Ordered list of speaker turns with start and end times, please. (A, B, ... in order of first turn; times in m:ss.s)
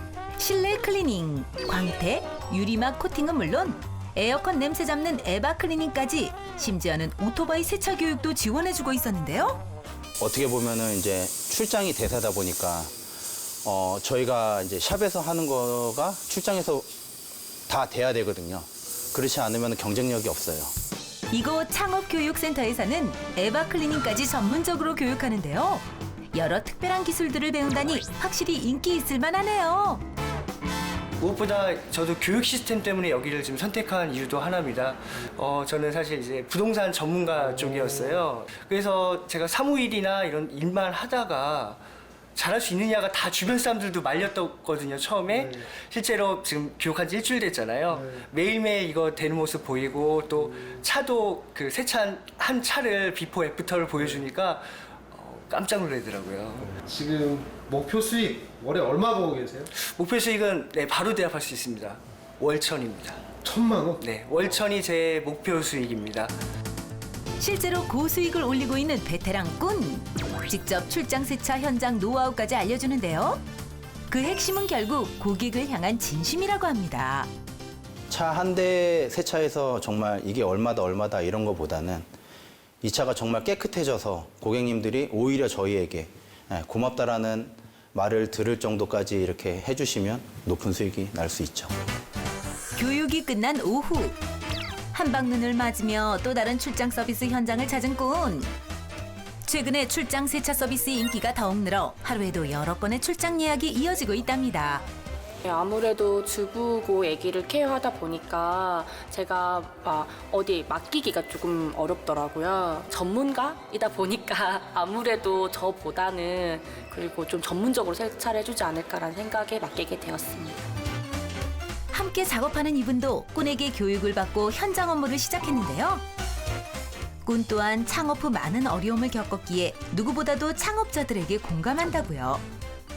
0:00.4-0:09.6 A
0:10.2-0:12.9 B
0:13.6-0:16.9 B
0:17.7-0:20.7 B
0:21.3-0:30.0 A
0:31.2-0:41.8 C
0:37.4-0:38.2 D
0:42.4-0:54.6 C
0:45.3-0:45.7 D
0:47.9-0:48.2 D
0:55.1-0:56.7 C
0:56.6-0:59.7 D
0:59.8-1:03.2 C
1:03.4-1:04.0 D
1:04.0-1:06.3 C
1:07.4-1:13.4 A
1:14.1-1:17.3 A
1:18.1-1:22.1 B
1:22.8-1:31.7 B
1:32.8-1:34.2 A
1:34.9-1:38.5 A
1:39.4-1:44.8 A
1:45.5-2:00.5 E
2:01.9-2:06.0 A
2:07.2-2:12.4 A